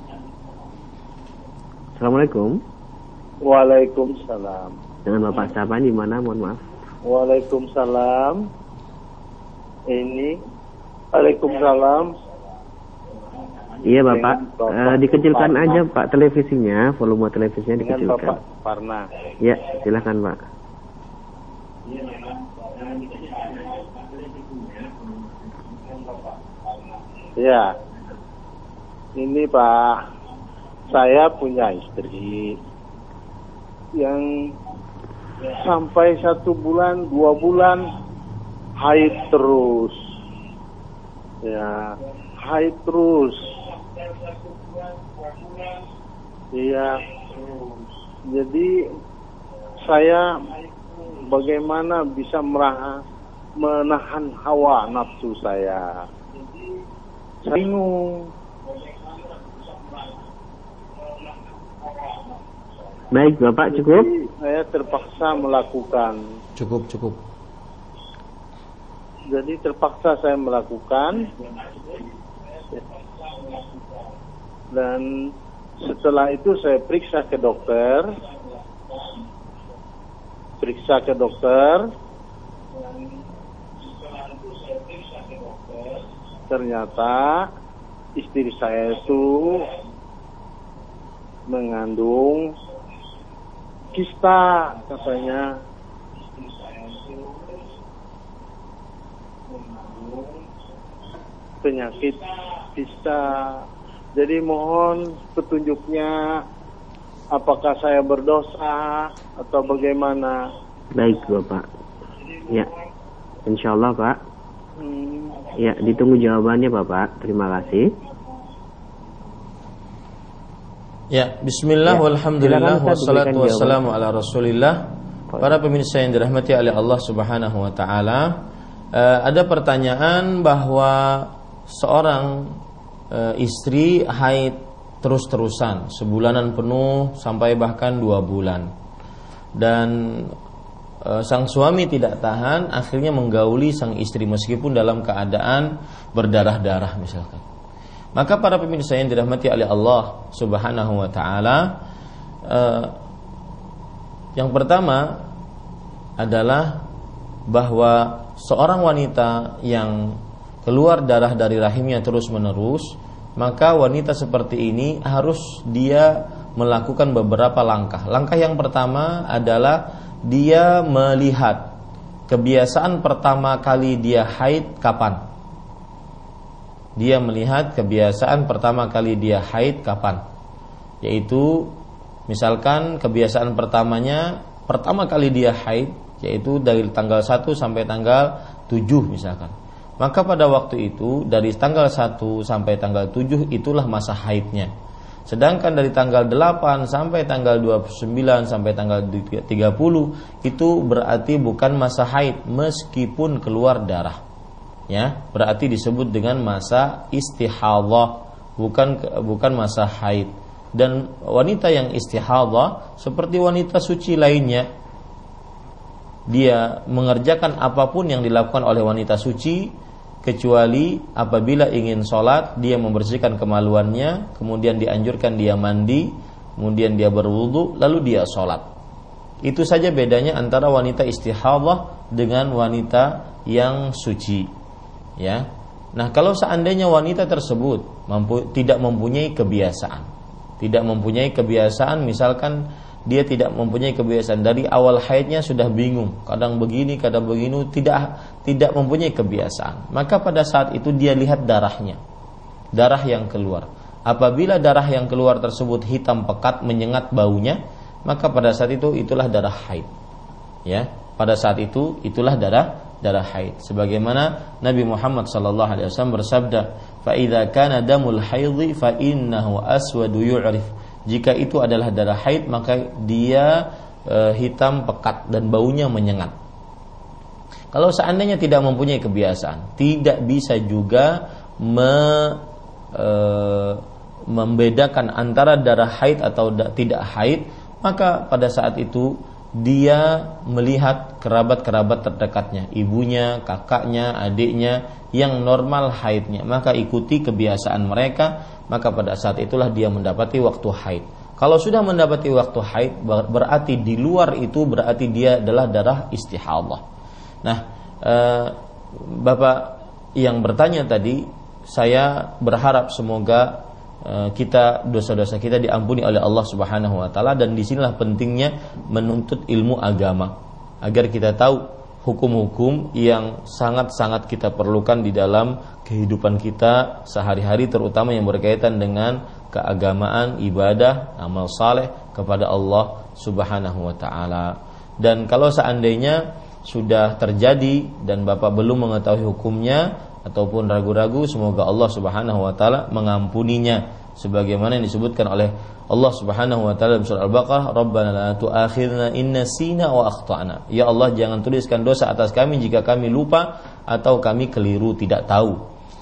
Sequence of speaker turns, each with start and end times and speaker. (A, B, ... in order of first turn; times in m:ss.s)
0:02.0-0:02.6 A
0:03.4-0:04.8 B
0:05.1-0:06.6 A
0:07.1-0:08.4 B
0:09.9-0:10.4 B
0:11.1-0:12.1 B
0:13.8-0:18.4 A
0:13.9-0:15.8 B
0:17.8-0:19.1 B
0:19.4-0:20.4 A
0:21.9-0:24.9 B
0:27.4-0:27.8 B
0:29.2-0:30.0 B
0:30.9-0:32.6 B
0:34.0-0:34.6 B
0:35.4-0:37.9 B
0:38.8-0:40.0 B
0:41.4-0:43.4 B
0:46.5-0:47.2 B
0:48.3-0:48.8 B
0:49.9-0:50.6 B
0:51.1-0:53.0 B
0:53.6-0:56.1 B
0:57.4-0:58.3 B
1:03.1-1:04.1 A
1:03.7-1:06.2 B
1:06.6-1:07.2 C
1:09.3-1:11.3 B
1:14.7-1:18.1 B
1:20.6-1:21.9 B
1:25.8-1:27.5 B
1:28.2-1:29.7 B
1:31.5-1:32.5 B
1:33.9-1:35.6 B
1:36.9-1:37.2 B
1:39.6-1:40.4 B
1:41.6-1:43.6 B
1:44.2-1:46.4 B
1:47.3-1:50.4 B
1:50.9-1:51.7 A
1:53.5-1:54.2 A
1:54.8-1:55.5 B
1:55.6-1:57.9 A
2:01.1-2:08.4 C
2:01.9-2:03.8 A
2:08.9-2:12.6 C
2:13.1-2:18.7 C
2:19.6-2:20.4 C
2:21.0-2:27.4 C
2:28.2-2:31.8 C
2:32.5-2:33.0 C
2:34.4-2:35.3 C
2:36.2-2:36.9 C
2:37.5-2:51.8 C
2:52.3-2:55.3 C
2:57.0-3:00.2 C
3:01.0-3:01.8 C
3:02.3-3:14.7 C
3:15.3-3:24.2 C
3:24.9-3:34.7 C
3:36.3-3:39.7 C
3:40.2-3:48.7 C
3:49.4-3:54.5 C
3:55.2-4:00.1 C
4:00.6-4:12.0 C
4:12.8-4:19.9 C
4:20.7-4:36.3 C
4:37.7-5:06.8 C
5:07.4-5:55.6 C